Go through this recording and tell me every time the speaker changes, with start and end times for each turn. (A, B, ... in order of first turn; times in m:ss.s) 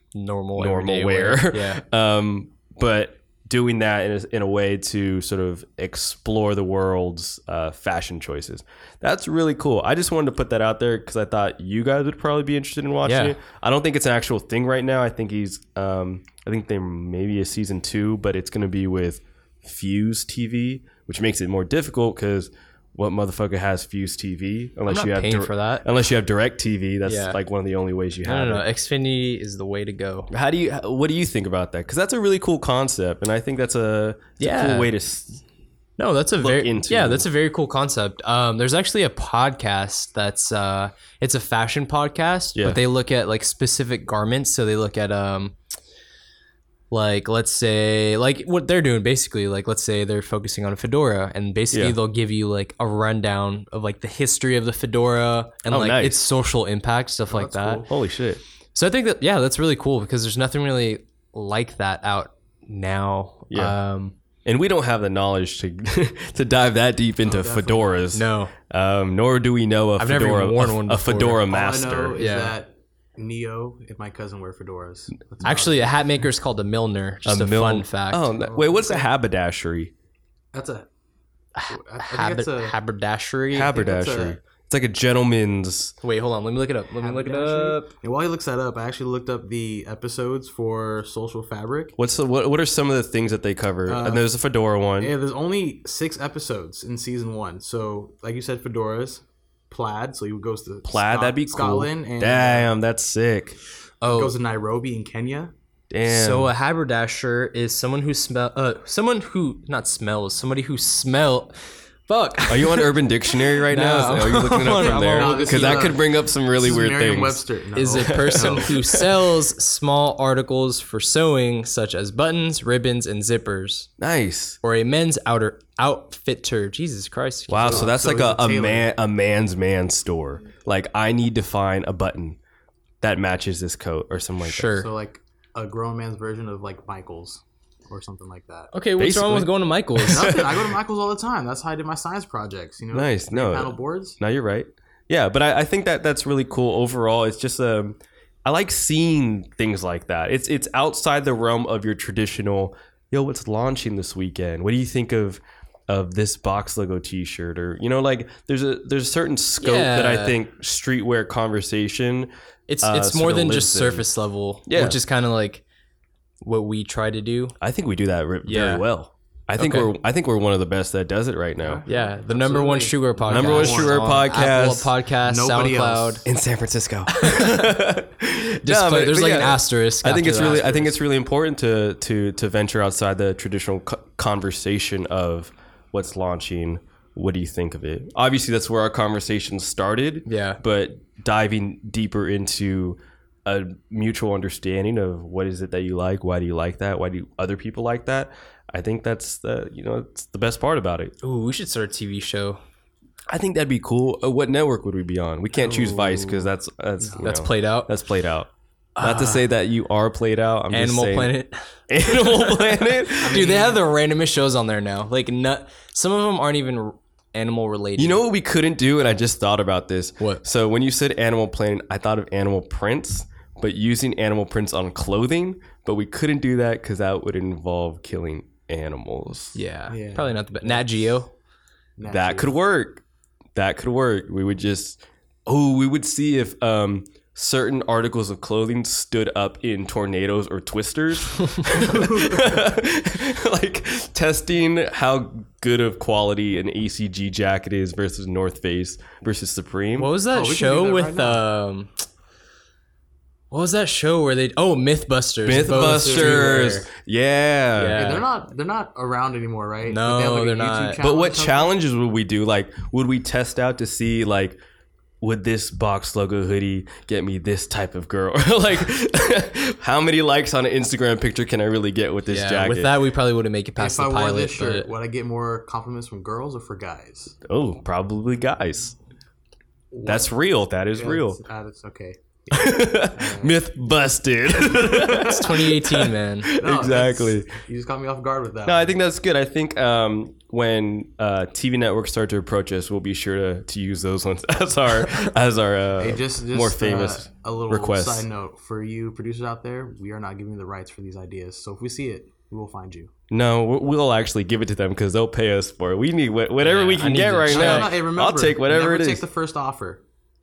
0:00.1-0:01.8 A
0:00.6-0:28.6 B
0:13.0-0:13.4 A
0:24.9-0:25.8 A
0:27.0-0:27.4 A
0:28.2-0:30.3 A
0:30.3-0:35.4 B
0:34.4-0:34.9 A
0:36.0-0:45.5 A
0:36.4-0:37.3 B
0:42.6-0:42.8 B
0:46.9-0:57.8 A
0:55.7-0:56.2 B
0:57.3-0:57.8 C
0:57.8-0:58.4 B
0:58.7-1:04.2 A
1:03.5-1:03.7 B
1:04.4-1:12.2 B
1:07.2-1:07.9 C
1:08.1-1:08.5 A
1:10.0-1:11.4 A
1:11.5-1:15.9 C
1:12.2-1:12.5 A
1:15.4-1:18.3 A
1:17.2-1:19.9 B
1:18.4-1:19.1 C
1:20.5-1:20.9 C
1:21.5-1:23.8 A
1:21.7-1:22.8 C
1:23.5-1:26.0 B
1:23.7-1:24.4 C
1:26.0-1:27.9 A
1:27.0-1:32.0 C
1:32.0-1:35.1 B
1:33.9-1:34.2 C
1:35.0-1:42.7 C
1:40.8-1:43.6 B
1:44.0-1:44.3 A
1:44.0-1:45.5 C
1:45.9-1:46.5 B
1:46.0-1:52.9 A
1:52.5-1:57.4 B
1:53.6-1:55.9 A
1:54.8-1:58.8 C
1:57.7-2:03.9 A
1:58.0-1:59.0 B
2:04.0-2:04.6 B
2:04.6-2:07.9 A
2:07.5-2:12.4 B
2:07.6-2:08.9 C
2:13.0-2:14.8 B
2:14.5-2:14.9 A
2:14.8-2:18.7 C
2:18.7-2:20.3 A
2:19.0-2:20.5 B
2:20.1-2:24.2 C
2:22.9-2:44.1 B
2:39.6-2:40.4 A
2:42.7-2:45.6 A
2:44.6-2:45.0 B
2:46.4-2:47.6 A
2:47.6-2:51.8 B
2:48.4-2:48.8 A
2:49.6-2:49.9 A
2:51.6-2:54.3 C
2:51.8-2:56.2 A
2:53.3-2:54.9 B
2:55.2-2:56.3 C
2:56.2-3:21.1 B
2:57.1-2:57.7 A
2:58.6-3:00.9 A
3:10.2-3:10.6 A
3:21.2-3:22.6 A
3:23.3-3:31.3 B
3:25.6-3:26.2 A
3:25.8-3:26.2 C
3:27.0-3:27.3 C
3:27.2-3:27.9 A
3:29.0-3:29.4 A
3:30.7-3:38.2 A
3:31.9-3:33.5 B
3:33.2-3:33.8 C
3:38.0-3:49.6 B
3:49.5-3:51.3 A
3:49.9-3:51.0 C
3:52.0-3:52.6 C
3:52.1-3:53.0 B
3:53.5-4:10.1 B
4:01.9-4:02.5 C
4:10.0-4:12.0 A
4:10.2-4:11.4 C
4:13.5-4:16.9 A
4:15.4-4:18.2 B
4:15.5-4:16.8 C
4:17.7-4:18.2 A
4:18.0-4:21.7 C
4:19.9-4:21.0 A
4:21.0-4:24.6 B
4:25.2-4:32.9 B
4:32.3-4:34.9 A
4:33.8-4:37.4 C
4:37.4-4:38.9 B
4:39.9-4:40.3 C
4:40.0-4:41.4 B
4:41.0-4:43.6 C
4:42.5-4:47.5 B
4:44.6-4:45.3 C
4:45.1-4:46.5 A
4:46.6-4:49.0 C
4:48.6-4:58.2 B
4:56.0-5:03.1 C
5:03.3-5:09.2 B
5:06.6-5:07.9 A
5:07.4-5:10.0 C